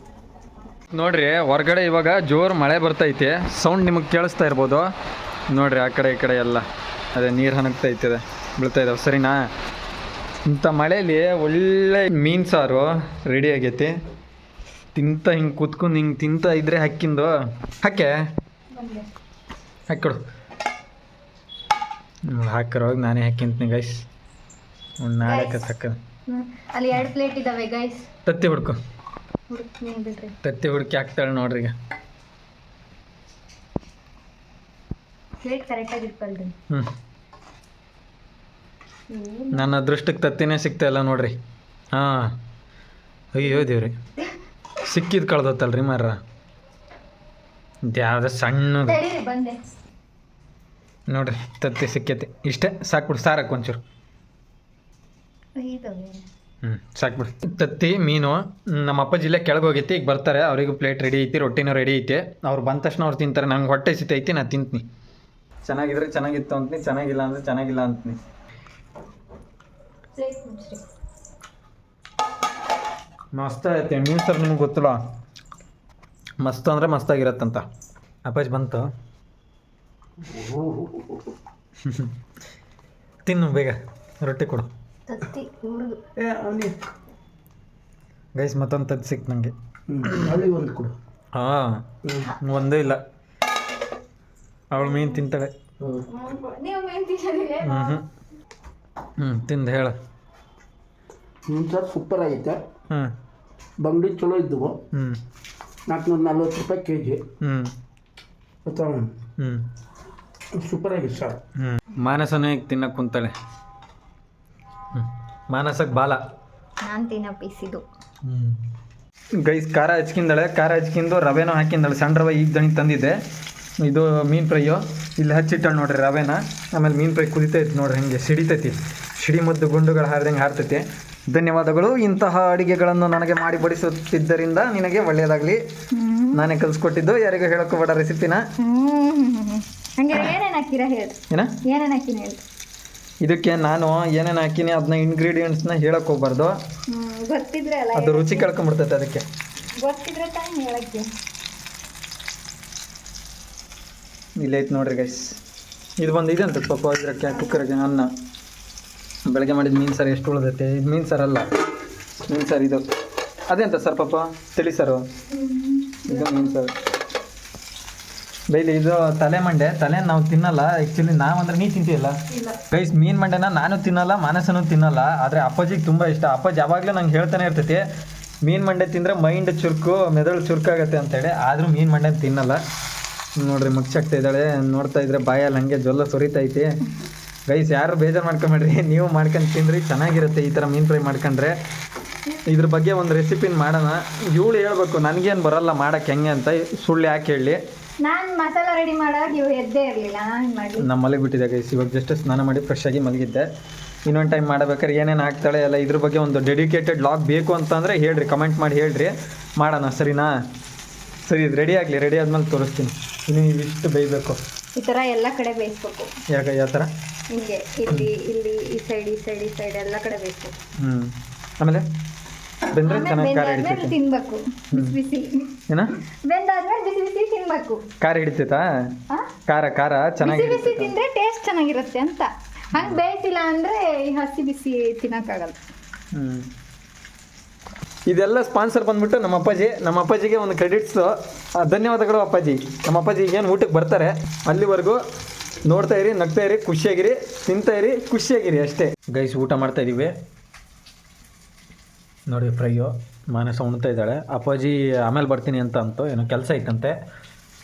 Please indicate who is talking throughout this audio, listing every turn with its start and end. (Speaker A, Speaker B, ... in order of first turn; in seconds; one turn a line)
Speaker A: 0.9-4.9
Speaker A: 5.5-9.4
Speaker A: 10.5-13.9
Speaker A: 14.9-18.2
Speaker B: 18.7-19.1
Speaker A: 19.9-20.2
Speaker A: 22.3-24.0
Speaker A: 25.0-26.0
Speaker B: 25.2-25.7
Speaker B: 26.3-28.1
Speaker A: 28.3-28.8
Speaker B: 29.5-30.4
Speaker A: 30.4-31.7
Speaker B: 35.4-36.5
Speaker B: 39.1-39.7
Speaker A: 39.5-41.4
Speaker A: 41.9-42.4
Speaker A: 43.3-44.0
Speaker A: 44.8-46.2
Speaker A: 47.9-49.0
Speaker B: 48.9-49.6
Speaker A: 51.1-53.8
Speaker B: 55.6-56.3
Speaker A: 56.6-64.8
Speaker A: 65.6-68.2
Speaker B: 70.2-70.8
Speaker A: 73.3-75.0
Speaker A: 76.4-77.6
Speaker A: 78.3-78.9
Speaker C: 80.2-81.3
Speaker A: 81.8-82.1
Speaker A: 83.2-84.7
Speaker B: 85.1-86.0
Speaker C: 86.2-86.8
Speaker A: 88.4-89.5
Speaker C: 89.9-90.9
Speaker A: 91.3-93.0
Speaker C: 92.0-92.3
Speaker A: 94.7-95.5
Speaker B: 96.1-98.0
Speaker A: 97.6-98.0
Speaker A: 99.2-100.0
Speaker C: 101.5-102.6
Speaker C: 103.8-104.8
Speaker A: 104.9-105.2
Speaker C: 105.9-107.2
Speaker A: 107.4-107.7
Speaker C: 108.7-109.1
Speaker A: 109.4-109.7
Speaker C: 110.6-111.4
Speaker A: 111.6-113.3
Speaker A: 114.9-116.2
Speaker B: 116.8-117.8
Speaker A: 118.2-118.6
Speaker A: 119.4-123.2
Speaker A: 123.8-135.6
Speaker B: 135.9-136.4
Speaker A: 136.3-138.4
Speaker B: 138.6-142.4
Speaker A: 141.3-141.6
Speaker A: 143.2-146.6
Speaker B: 146.9-148.6
Speaker A: 147.9-149.3
Speaker B: 149.8-151.1
Speaker A: 154.4-155.4
Speaker A: 156.0-158.1
Speaker A: 159.3-161.5
Speaker A: 162.3-162.8
Speaker A: 163.5-165.1
Speaker B: 165.3-166.6
Speaker A: 166.1-166.7
Speaker A: 168.5-177.8
Speaker B: 172.3-172.6
Speaker A: 178.4-182.6
Speaker A: 183.4-186.7
Speaker A: 187.5-191.6
Speaker A: 192.5-197.6
Speaker B: 198.0-200.9
Speaker A: 200.8-203.5
Speaker A: 204.1-210.3
Speaker A: 211.3-214.4
Speaker B: 214.8-216.1
Speaker A: 216.3-216.9
Speaker B: 217.3-220.6
Speaker A: 220.8-221.8
Speaker A: 222.7-224.0
Speaker B: 222.8-225.6
Speaker A: 225.7-225.9
Speaker B: 226.3-227.8
Speaker A: 228.0-228.7
Speaker A: 229.5-230.9
Speaker B: 230.2-235.6
Speaker A: 236.1-236.5
Speaker A: 238.1-245.0
Speaker A: 245.7-250.1
Speaker A: 252.3-257.0